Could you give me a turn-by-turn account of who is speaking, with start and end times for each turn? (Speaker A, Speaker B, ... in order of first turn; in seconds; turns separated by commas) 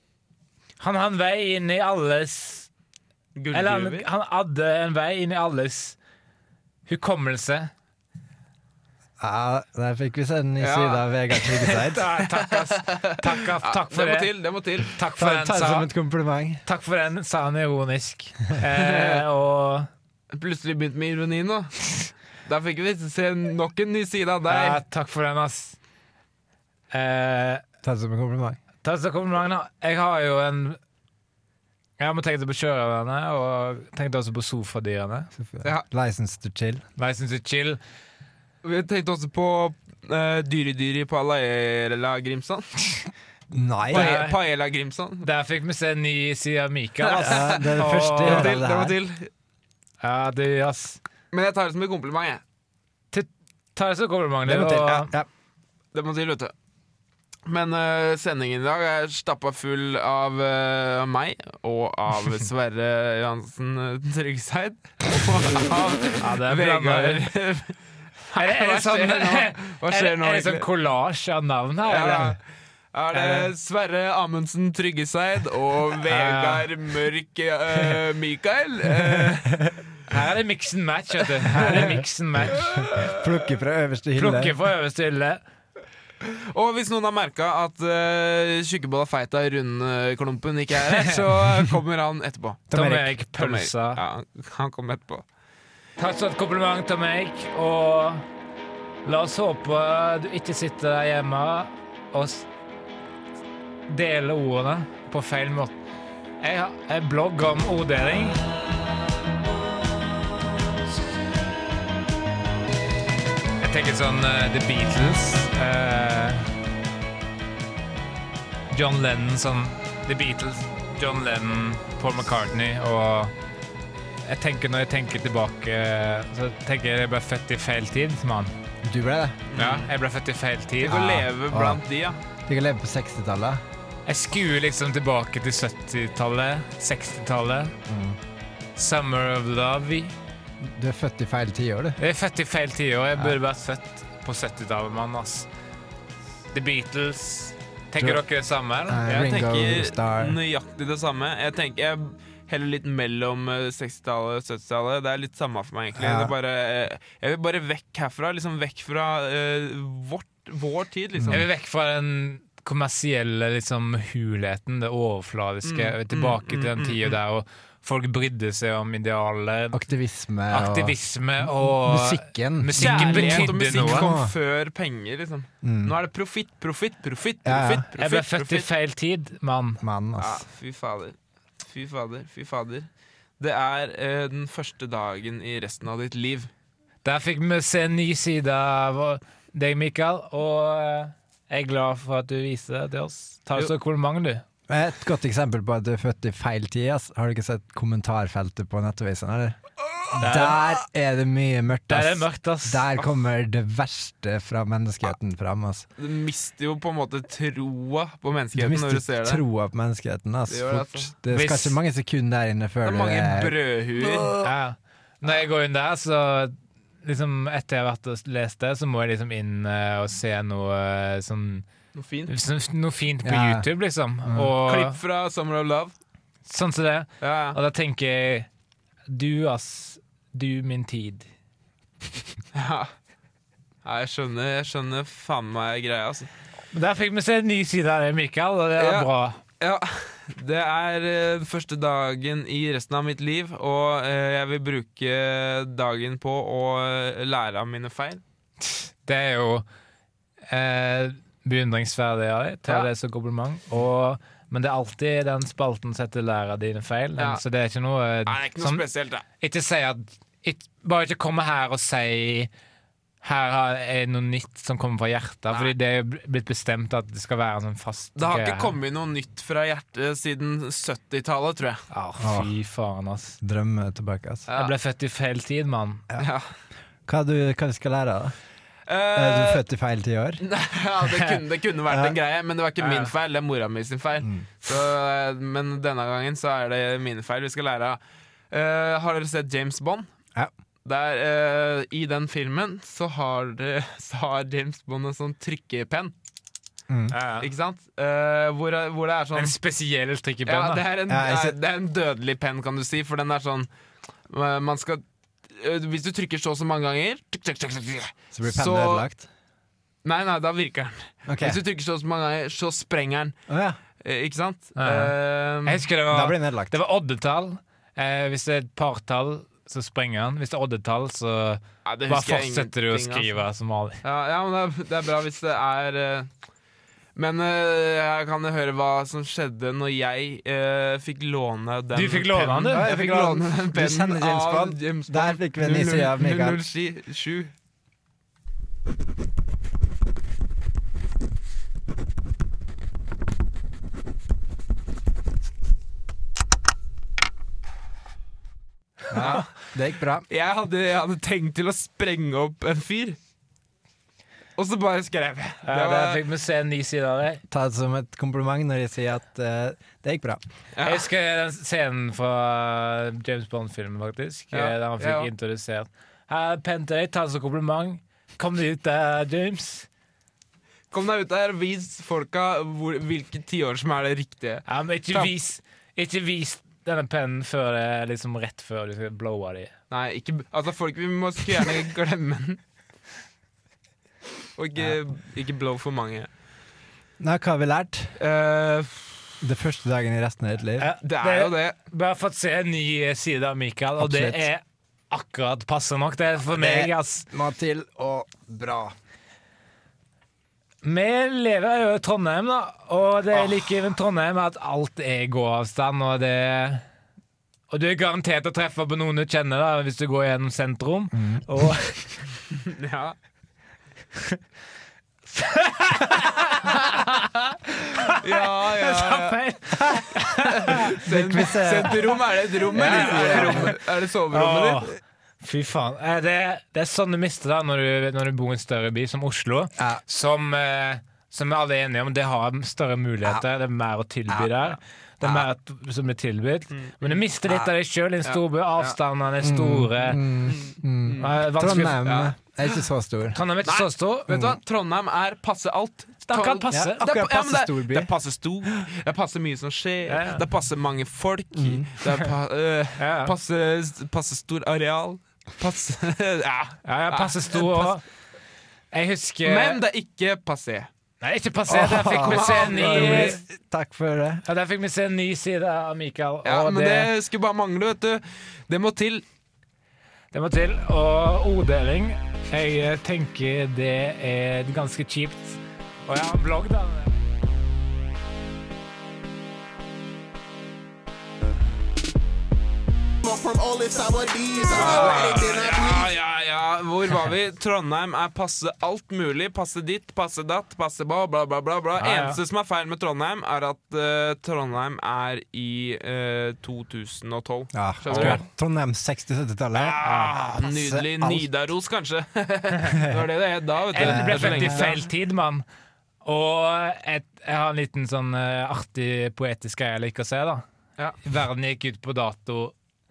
Speaker A: 0.8-2.7, Speaker B: 3.4-4.0, Speaker A: 3.5-6.0, Speaker A: 6.9-7.7, Speaker C: 9.2-12.1, Speaker B: 10.6-11.5, Speaker A: 11.7-15.9, Speaker B: 12.2-14.9, Speaker C: 15.2-16.6, Speaker A: 16.7-19.9, Speaker B: 18.7-19.2, Speaker B: 20.3-24.8, Speaker A: 24.5-25.8, Speaker A: 26.9-27.6, Speaker C: 27.8-28.6, Speaker A: 28.8-30.8, Speaker A: 32.0-35.3, Speaker C: 35.4-36.8, Speaker A: 37.0-37.8, Speaker B: 38.6-42.8, Speaker C: 43.5-44.1, Speaker B: 43.9-45.3, Speaker A: 43.9-44.4, Speaker A: 45.2-48.5, Speaker C: 47.1-49.0, Speaker B: 47.1-49.3, Speaker A: 50.0-51.0, Speaker B: 51.3-52.4, Speaker A: 53.1-55.1, Speaker C: 54.5-55.3, Speaker B: 55.9-56.5, Speaker B: 57.5-67.8, Speaker A: 66.2-67.2, Speaker B: 68.3-70.7, Speaker A: 68.4-72.4, Speaker B: 71.9-72.4, Speaker B: 72.9-79.6, Speaker A: 76.1-76.7, Speaker A: 80.1-82.8, Speaker B: 81.5-81.8, Speaker B: 82.5-83.5, Speaker C: 83.0-84.5, Speaker A: 84.2-85.4, Speaker B: 86.2-95.2, Speaker A: 90.9-91.2, Speaker C: 92.7-93.1, Speaker A: 92.7-94.0, Speaker A: 96.0-98.2, Speaker A: 99.0-102.5, Speaker A: 103.9-105.8, Speaker A: 106.4-108.4, Speaker A: 113.6-116.5, Speaker A: 118.7-123.3, Speaker A: 124.2-128.6, Speaker C: 128.8-129.4, Speaker B: 129.5-129.9, Speaker A: 129.6-131.0, Speaker B: 130.8-132.2, Speaker C: 130.9-131.8, Speaker C: 132.5-133.6, Speaker A: 134.1-137.8, Speaker C: 137.9-138.2, Speaker A: 138.8-140.1, Speaker C: 140.6-142.0, Speaker A: 142.0-145.5, Speaker A: 146.5-149.1, Speaker C: 148.9-150.4, Speaker B: 149.1-161.4, Speaker C: 155.9-156.3, Speaker C: 161.2-161.5, Speaker A: 161.3-169.8, Speaker B: 165.6-167.2, Speaker C: 169.7-174.3, Speaker A: 170.5-174.1, Speaker B: 172.8-178.7, Speaker C: 175.6-175.9, Speaker C: 177.4-177.9, Speaker A: 178.0-179.8, Speaker C: 179.8-180.4, Speaker B: 180.2-182.9, Speaker B: 183.4-186.5, Speaker A: 187.0-194.4, Speaker C: 194.7-199.6, Speaker C: 200.2-205.9, Speaker A: 200.2-200.6, Speaker A: 201.9-202.9, Speaker B: 206.0-209.4, Speaker C: 208.6-213.6, Speaker B: 210.5-211.1, Speaker A: 211.3-211.8, Speaker B: 212.8-214.4, Speaker C: 214.1-214.4, Speaker A: 214.4-221.7, Speaker B: 221.9-222.3, Speaker A: 222.3-225.0, Speaker C: 223.2-223.7, Speaker C: 224.3-224.5, Speaker B: 224.6-225.9, Speaker A: 226.5-228.5, Speaker B: 227.2-227.6, Speaker A: 229.1-231.3, Speaker B: 232.5-232.9, Speaker B: 233.8-236.3, Speaker A: 236.7-239.4, Speaker B: 238.8-239.1, Speaker B: 239.6-248.2, Speaker A: 248.6-249.7, Speaker A: 250.5-258.8, Speaker B: 258.3-259.2, Speaker A: 259.4-262.5, Speaker A: 263.2-268.8, Speaker B: 268.2-271.9, Speaker A: 271.9-273.4, Speaker C: 272.2-272.5, Speaker C: 273.4-274.5, Speaker B: 274.5-274.7, Speaker A: 274.5-276.1, Speaker B: 276.2-276.5, Speaker C: 277.1-278.4, Speaker B: 278.9-279.6, Speaker C: 279.1-280.4, Speaker B: 280.4-288.0, Speaker A: 281.1-281.4, Speaker C: 281.9-282.2, Speaker A: 282.8-283.1, Speaker C: 284.2-284.5, Speaker B: 288.5-290.1, Speaker B: 290.9-296.1, Speaker C: 296.9-297.1, Speaker A: 297.1-297.5, Speaker B: 297.4-299.6, Speaker A: 299.4-300.9, Speaker B: 300.5-303.7, Speaker C: 301.1-301.6, Speaker B: 304.3-309.1, Speaker C: 308.3-309.3, Speaker B: 310.0-313.4, Speaker C: 311.3-311.6, Speaker C: 313.5-313.8, Speaker B: 314.0-315.9, Speaker A: 314.8-324.0, Speaker C: 316.1-316.8, Speaker B: 321.9-323.3, Speaker B: 324.0-326.3, Speaker B: 327.2-337.5, Speaker A: 331.9-332.9, Speaker C: 332.7-336.6, Speaker C: 349.1-350.3, Speaker B: 349.1-349.5, Speaker A: 349.2-349.5, Speaker B: 350.3-353.2, Speaker B: 354.6-356.2, Speaker A: 355.6-357.4, Speaker C: 357.5-360.4, Speaker B: 360.8-361.1, Speaker A: 360.8-369.9, Speaker B: 364.5-365.3, Speaker B: 370.9-375.3, Speaker A: 374.7-379.7, Speaker B: 379.9-382.6, Speaker B: 384.6-386.3, Speaker C: 387.2-388.2, Speaker B: 388.2-389.3, Speaker C: 389.4-390.9, Speaker A: 390.8-397.3, Speaker B: 391.0-391.8, Speaker C: 394.0-394.5, Speaker C: 396.5-399.0, Speaker A: 400.8-406.8, Speaker A: 407.7-412.2, Speaker C: 411.1-411.5, Speaker B: 412.6-413.1, Speaker A: 415.3-421.0, Speaker B: 418.2-419.4, Speaker B: 420.4-424.9, Speaker C: 421.1-422.2, Speaker A: 422.7-440.2, Speaker C: 422.8-423.8, Speaker C: 434.3-434.6, Speaker C: 435.2-435.5, Speaker B: 436.7-437.2, Speaker B: 438.2-439.0, Speaker C: 439.4-443.4, Speaker B: 440.5-441.4, Speaker A: 441.2-442.0, Speaker B: 442.0-442.8, Speaker A: 443.4-444.4, Speaker B: 443.6-457.9, Speaker C: 444.3-444.6, Speaker A: 446.3-447.0, Speaker C: 446.7-448.1, Speaker A: 450.1-450.4, Speaker C: 451.5-451.9, Speaker A: 453.0-453.3, Speaker A: 456.9-458.1, Speaker A: 458.9-459.8, Speaker B: 459.4-460.9, Speaker A: 461.2-463.4, Speaker C: 461.7-464.4, Speaker B: 462.0-463.4, Speaker A: 464.4-467.1, Speaker B: 466.4-469.2, Speaker A: 470.3-477.1, Speaker D: 483.2-486.1, Speaker A: 484.7-485.5, Speaker B: 484.7-498.4, Speaker A: 492.0-492.4, Speaker C: 497.7-500.0, Speaker A: 498.1-498.4, Speaker B: 499.8-505.0, Speaker A: 500.0-500.4, Speaker C: 500.6-501.5, Speaker A: 503.9-505.6, Speaker C: 504.0-504.9, Speaker A: 506.2-510.6, Speaker A: 511.2-512.7